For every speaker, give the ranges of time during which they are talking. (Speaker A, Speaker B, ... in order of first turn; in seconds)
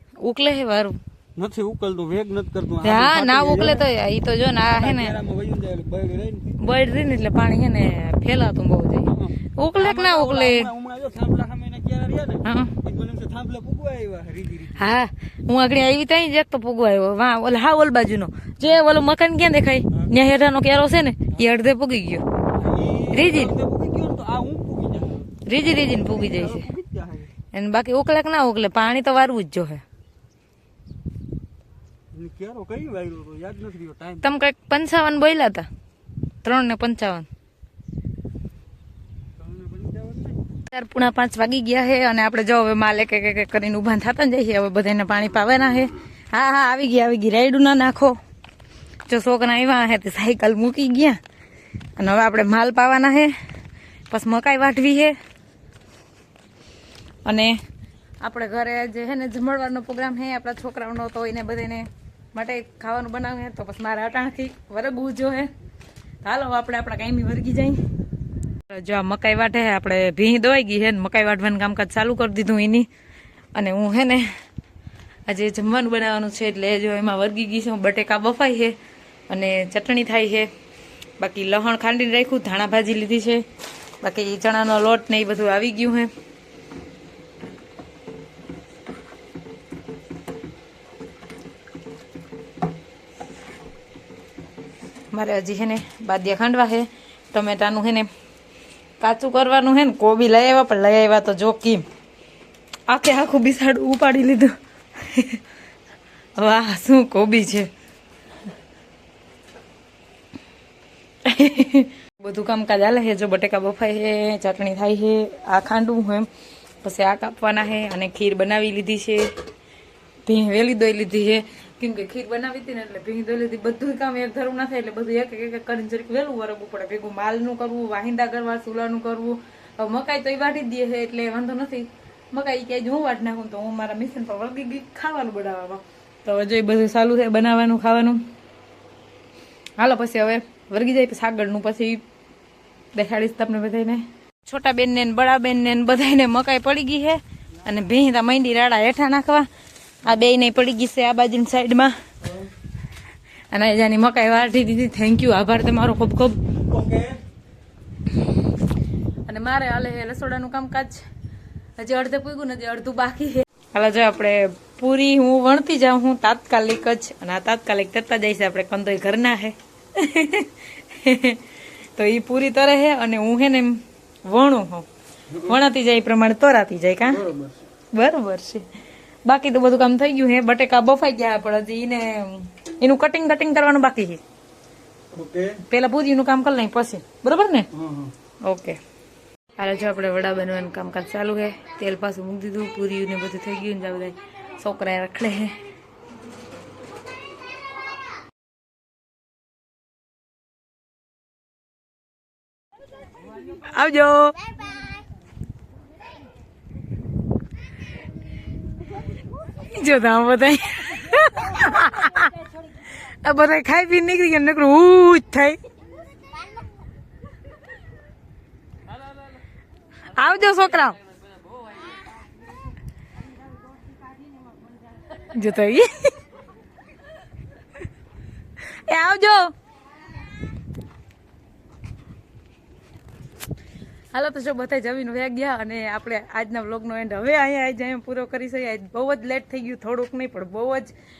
Speaker A: 0.2-1.0, 2.8-5.1, 6.6-10.7, 12.4-12.7, 14.8-22.2, 23.1-23.5, 25.5-26.7, 27.5-29.8, 34.2-35.7, 36.4-37.3, 40.7-48.2, 49.1-51.2, 52.0-53.3, 54.1-55.1, 57.2-57.6, 58.2-65.5, 66.2-67.8, 68.7-72.9, 73.5-74.3, 75.3-78.8, 79.3-80.5, 81.2-83.5, 84.0-86.1, 95.1-98.1, 99.0-101.8, 102.9-105.4, 106.4-107.7, 111.2-116.3, 116.8-119.3, 120.3-138.2, 139.8-142.0, 142.9-149.5, 150.0-151.9, 153.5-156.4, 159.3-161.0, 161.8-171.4, 172.0-174.9, 175.4-177.2, 177.9-178.7, 179.2-184.2, 185.7-187.7, 188.4-188.8, 189.6-195.6, 203.5-204.5, 209.6-212.4, 213.0-215.6, 220.1-221.0, 225.1-226.2, 228.6-229.5, 234.1-240.9
Speaker B: 1.4-3.9, 4.6-6.6, 9.1-14.9, 22.6-25.3, 25.9-27.3, 32.1-34.2, 39.4-40.4, 152.2-152.5, 156.5-157.2, 175.3-175.6, 177.0-177.7, 185.1-185.6, 187.7-188.1